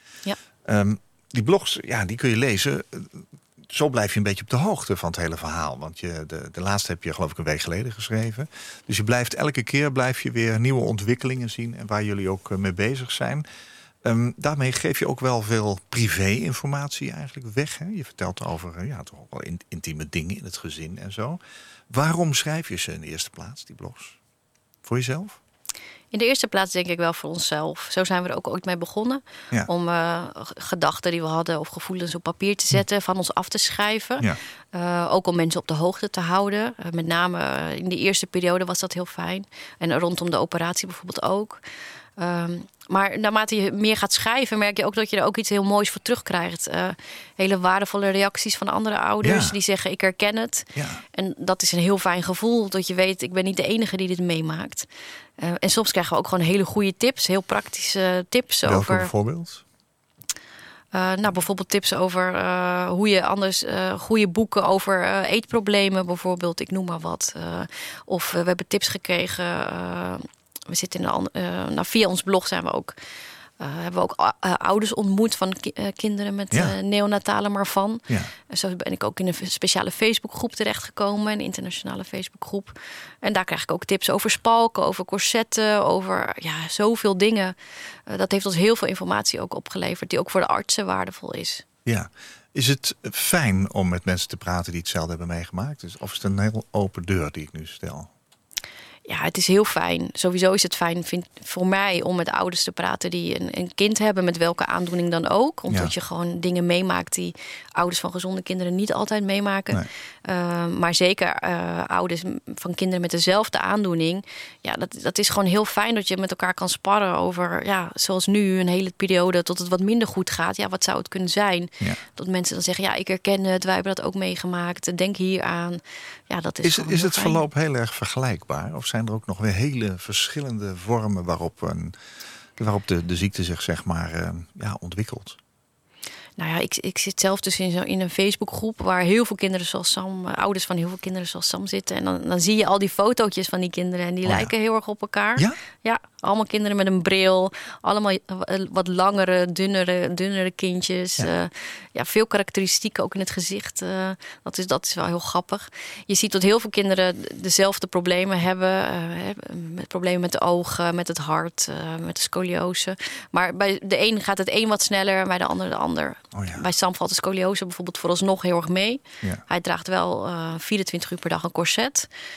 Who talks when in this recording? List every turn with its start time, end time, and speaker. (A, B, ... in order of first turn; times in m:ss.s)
0:00.6-0:13.4 A
0:14.0-0:24.2 A
0:24.8-0:25.4 A
0:26.1-0:41.6 B
0:42.2-0:54.9 B
0:49.2-0:49.6 A
0:50.8-0:51.0 A
0:55.4-0:59.1 B
0:58.7-0:59.6 A
1:00.9-1:12.9 B
1:13.6-1:27.6 B
1:28.1-1:31.6 B
1:31.8-1:38.1 A
1:39.1-2:07.4 B
2:06.6-2:12.0 A
2:12.6-2:15.4 A
2:16.4-2:52.1 B
2:24.2-2:24.5 A
2:46.3-2:46.6 A